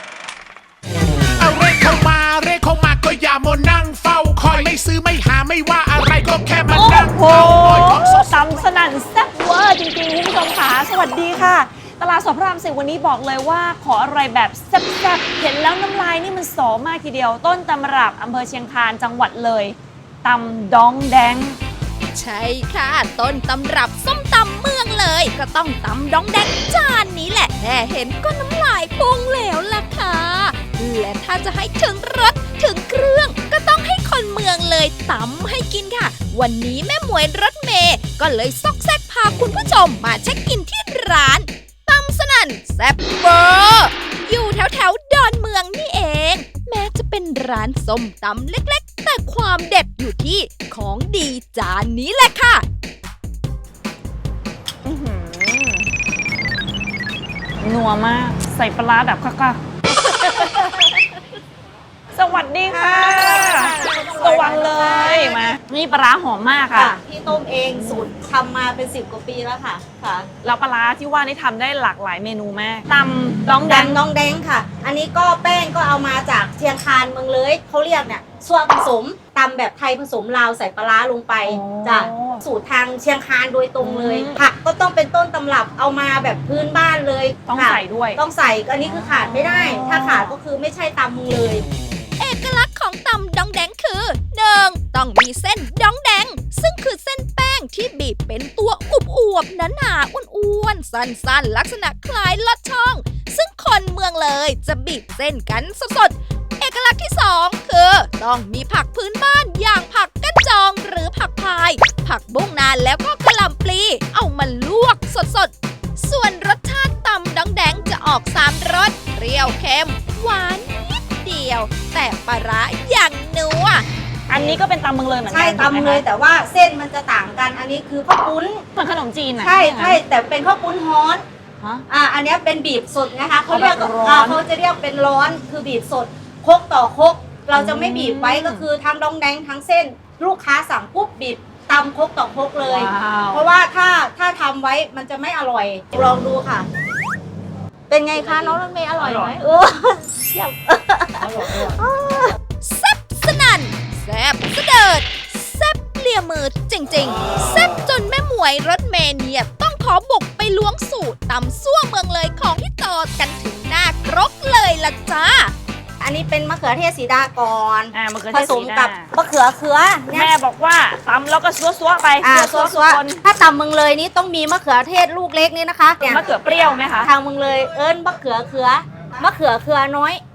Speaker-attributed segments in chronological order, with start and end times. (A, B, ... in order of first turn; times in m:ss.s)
0:01.4-0:08.6 A
0:06.7-0:21.6 B
0:22.1-0:52.6 C
0:54.8-0:55.9 B
0:57.6-1:01.0 B
1:02.1-1:06.9 B
1:02.7-1:05.5 D
1:06.7-1:10.3 D
1:07.6-1:08.1 B
1:10.4-1:14.0 B
1:13.6-1:31.6 D
1:21.4-1:22.4 B
1:23.8-1:24.4 B
1:27.5-1:28.2 B
1:28.9-1:30.3 B
1:32.2-2:03.8 C
2:04.3-2:06.1 B
2:04.3-2:04.6 D
2:05.3-2:08.6 D
2:08.8-2:10.0 B
2:09.4-2:11.2 D
2:11.9-2:26.7 D
2:13.5-2:14.4 B
2:17.5-2:18.6 B
2:22.6-2:23.5 B
2:27.9-2:32.4 D
2:28.2-2:29.4 B
2:32.6-2:45.5 C
2:46.0-2:50.3 D
2:47.9-2:49.1 B
2:50.1-2:53.2 B
2:52.2-2:56.3 D
2:56.0-2:57.1 B
2:57.0-3:00.2 D